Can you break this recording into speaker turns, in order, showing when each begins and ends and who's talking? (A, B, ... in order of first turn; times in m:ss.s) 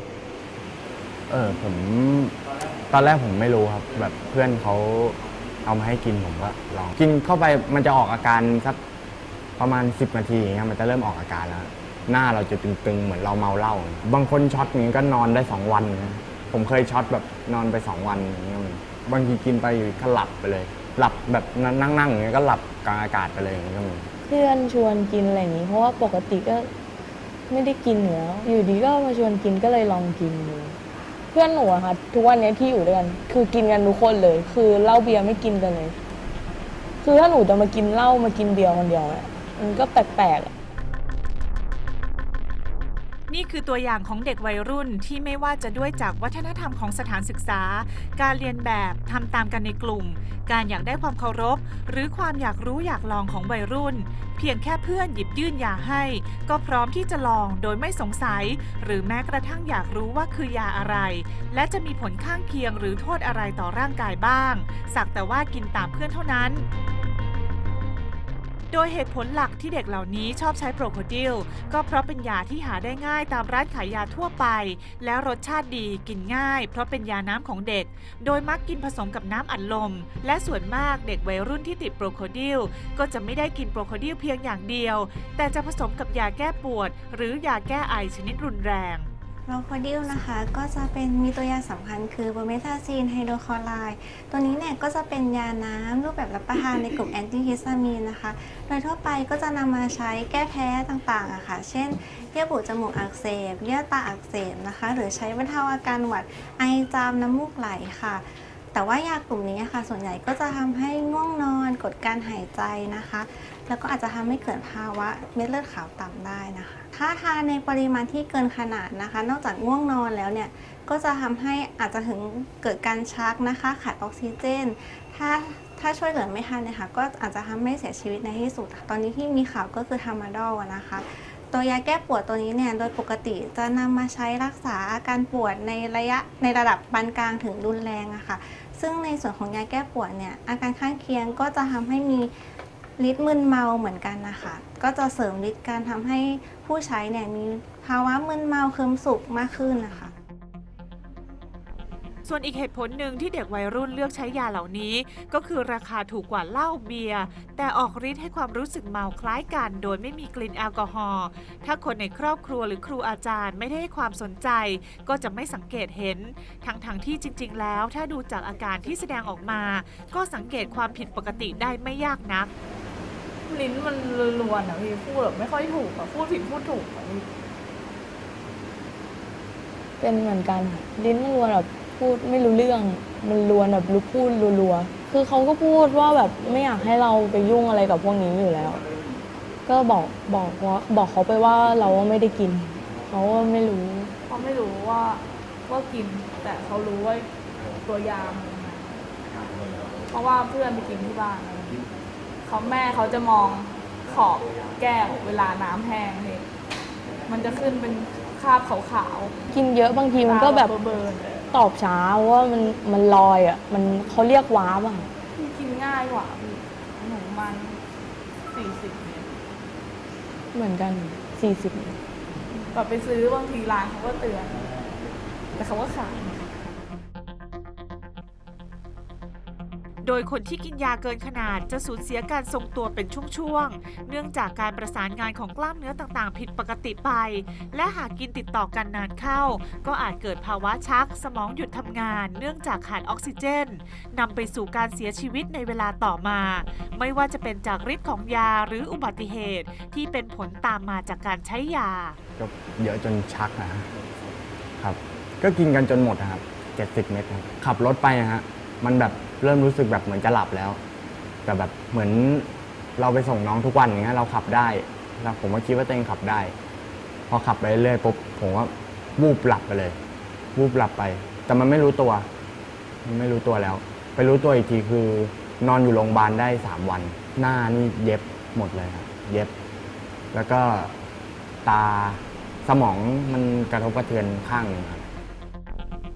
0:01.3-0:02.4 A
0:02.9-0:08.8 A
0:09.6-0:24.1 A
0:24.3-0:26.7 B
0:27.5-0:30.8 B
0:31.3-0:36.0 B
0:37.0-0:40.5 B
0:43.3-1:06.6 C
1:08.7-1:29.1 C
1:29.5-2:22.3 D
2:23.0-2:30.1 D
2:32.2-2:52.5 C
2:53.5-2:57.3 E
3:00.0-3:08.8 B
3:09.7-3:14.1 B
3:14.3-3:17.3 E
3:17.8-3:19.0 E
3:20.1-3:21.8 E
3:22.4-3:26.5 E
3:27.3-3:29.4 E
3:29.5-3:30.7 B
3:30.1-3:31.5 E
3:31.5-3:35.1 B
3:35.4-3:37.8 E
3:38.5-3:39.3 E
3:40.5-3:42.0 B
3:42.6-3:44.7 E
3:45.6-3:46.4 E
3:50.0-4:12.2 C
4:12.4-4:13.9 A
4:14.8-4:20.8 A
4:21.5-4:26.6 A
4:27.3-4:30.0 A
4:30.6-4:32.3 A
4:33.0-4:39.5 A
4:40.3-4:40.9 A
4:41.6-4:45.1 A